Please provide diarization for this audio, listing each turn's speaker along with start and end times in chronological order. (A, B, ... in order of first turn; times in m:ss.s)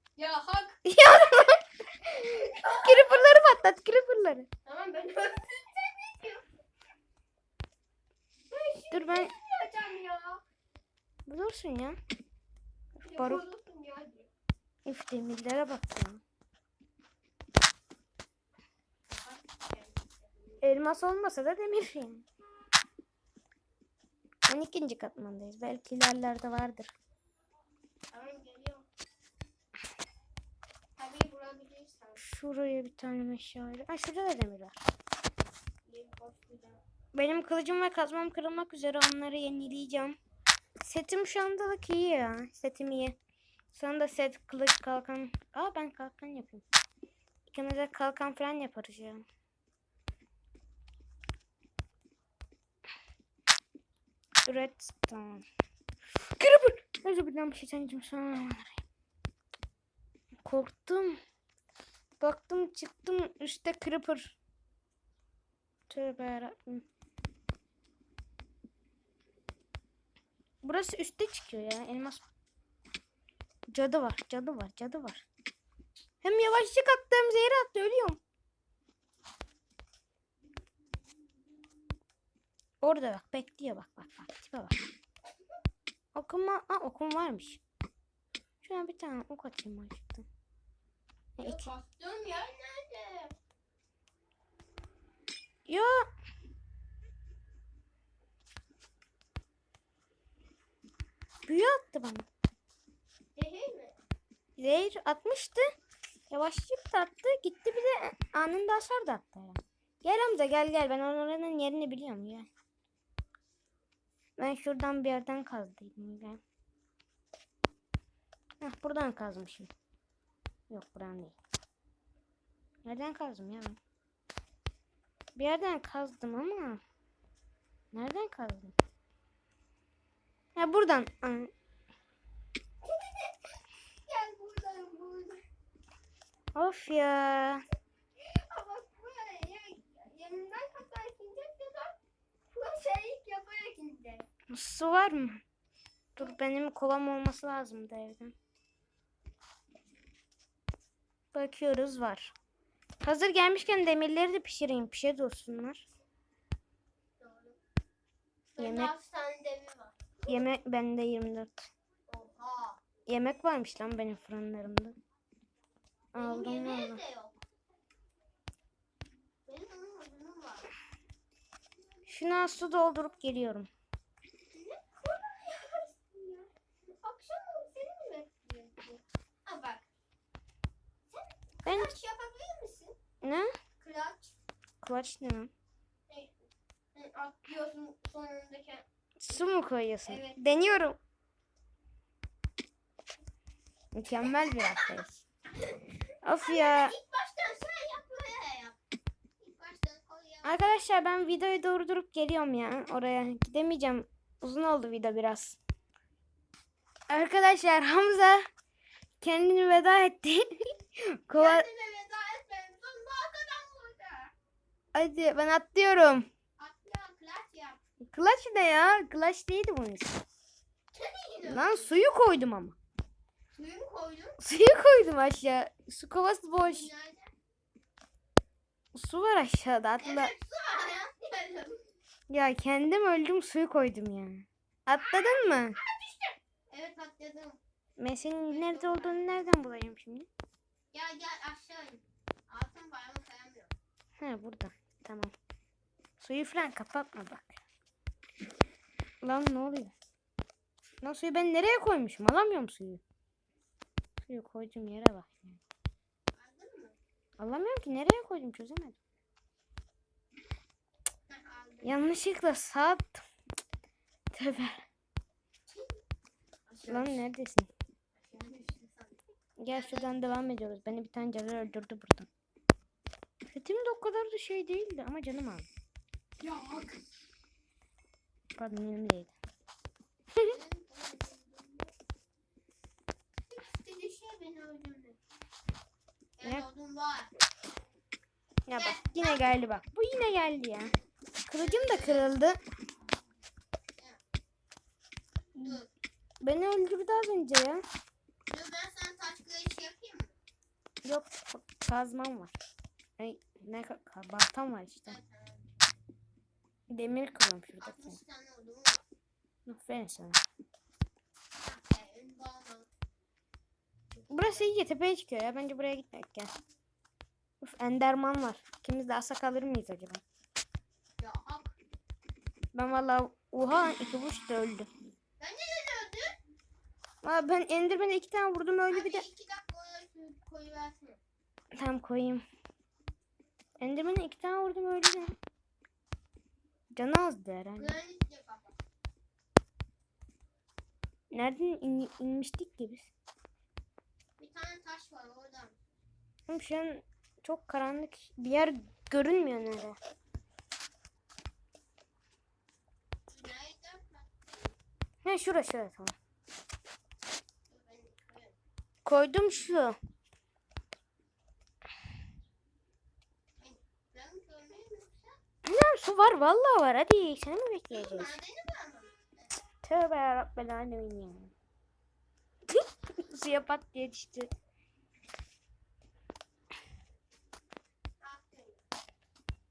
0:00.2-0:00.8 A
0:00.8-0:04.5 B
0:02.2-0:03.4 A
0:04.6-0:06.4 A
0:08.5-0:10.4 A
0:08.9-0:09.3 B
0:11.3-0:12.0 B
0:13.0-0:13.4 B
0:13.0-0:14.3 A
0:14.8-0:16.2 B
0:19.1-0:20.6 A
0:20.6-0:22.2 B
0:24.5-0:26.9 B
0:28.1-0:28.8 A
0:31.0-0:32.2 A
0:32.2-0:34.8 B
0:35.8-0:36.8 A
0:37.1-0:40.2 B
0:40.8-0:43.2 B
0:43.7-0:46.6 B
0:47.5-0:49.2 B
0:54.4-0:55.4 B
0:56.4-0:58.8 B
1:00.4-1:01.2 B
1:02.2-1:04.4 B
1:05.9-1:06.8 B
1:10.6-1:12.2 B
1:13.7-1:15.2 B
1:16.2-1:18.2 B
1:22.8-1:24.8 B
1:26.1-1:27.6 B
1:28.6-1:30.3 B
1:31.4-1:31.7 B
1:31.4-1:33.3 A
1:35.7-1:36.0 B
1:41.4-1:42.3 B
1:43.3-1:44.0 A
1:44.6-1:45.7 B
1:46.3-1:52.5 B
1:54.4-1:56.4 B
1:58.6-1:59.7 B
2:00.7-2:01.4 B
2:02.8-2:03.8 B
2:05.3-2:06.8 B
2:07.9-2:08.7 B
2:10.6-2:11.5 B
2:12.8-2:15.4 A
2:16.5-2:17.6 B
2:18.2-2:22.0 A
2:22.5-2:24.3 A
2:24.5-2:25.4 B
2:26.2-2:28.3 B
2:31.3-2:32.3 B
2:33.0-2:35.8 B
2:37.2-2:37.6 A
2:38.6-2:40.4 A
2:38.6-2:38.9 B
2:40.3-2:41.7 B
2:42.1-2:42.8 A
2:43.0-2:45.0 B
2:46.1-2:47.0 B
2:46.2-2:47.4 A
2:49.4-2:50.7 A
2:52.1-2:53.7 B
2:54.5-2:59.9 A
3:01.1-3:03.0 A
3:01.6-3:02.0 B
3:03.2-3:03.5 B
3:03.8-3:04.3 A
3:04.8-3:05.5 B
3:06.1-3:08.8 A
3:09.2-3:11.0 B
3:10.0-3:10.4 A
3:13.9-3:15.2 B
3:14.2-3:15.0 A
3:15.5-3:18.8 A
3:16.2-3:16.9 B
3:19.4-3:20.8 A
3:20.4-3:25.6 B
3:27.1-3:28.5 B
3:29.2-3:31.6 B
3:31.3-3:34.3 A
3:34.9-3:36.3 B
3:36.6-3:37.8 A
3:38.1-3:40.2 B
3:40.9-3:42.0 A
3:41.4-3:42.8 B
3:43.5-3:44.4 A
3:44.4-3:46.9 B
3:46.6-3:47.3 A
3:48.9-3:50.3 B
3:50.0-3:51.9 A
3:52.3-3:55.8 B
3:55.0-3:57.6 A
3:58.0-4:00.3 B
3:58.5-3:59.3 A
4:00.9-4:03.7 A
4:04.2-4:05.3 B
4:06.2-4:07.6 B
4:09.2-4:09.9 B
4:11.0-4:13.0 B
4:14.2-4:15.6 B
4:16.3-4:17.0 A
4:17.4-4:19.0 B
4:21.3-4:22.0 A
4:21.8-4:23.2 B
4:24.3-4:24.8 B
4:25.7-4:26.0 A
4:26.7-4:27.3 A
4:26.8-4:27.7 B
4:28.1-4:30.2 A
4:29.6-4:32.3 B
4:33.4-4:35.7 B
4:36.4-4:37.0 A
4:38.6-4:39.3 B
4:40.4-4:41.9 A
4:43.5-4:45.2 A
4:46.4-4:47.3 A
4:48.7-4:50.9 B
4:48.7-4:49.5 A
4:51.4-4:52.6 B
4:51.6-4:52.3 A
4:55.5-4:55.8 B
4:55.6-4:55.9 A
4:56.4-4:57.8 B
4:58.5-5:00.4 A
5:01.0-5:02.6 B
5:03.2-5:05.2 B
5:05.0-5:05.7 A
5:06.9-5:08.2 B
5:07.8-5:09.0 A
5:09.6-5:10.4 B
5:11.6-5:12.9 A
5:14.1-5:14.7 A
5:14.3-5:16.5 B
5:17.6-5:20.2 B
5:21.2-5:21.8 A
5:22.7-5:24.9 B
5:25.4-5:26.4 A
5:27.2-5:29.2 B
5:28.9-5:31.2 A
5:31.7-5:32.4 B
5:33.8-5:35.3 B
5:36.9-5:38.0 B
5:37.8-5:38.8 A
5:41.3-5:43.1 B
5:44.4-5:45.8 A
5:46.5-5:50.0 B
5:53.3-5:54.8 A
5:55.2-5:56.1 B
5:57.7-5:58.6 A
5:59.0-6:00.0 B
6:03.6-6:05.4 A
6:05.6-6:08.4 B
6:07.9-6:09.6 A
6:09.8-6:11.5 B
6:12.7-6:14.5 B
6:18.2-6:18.8 A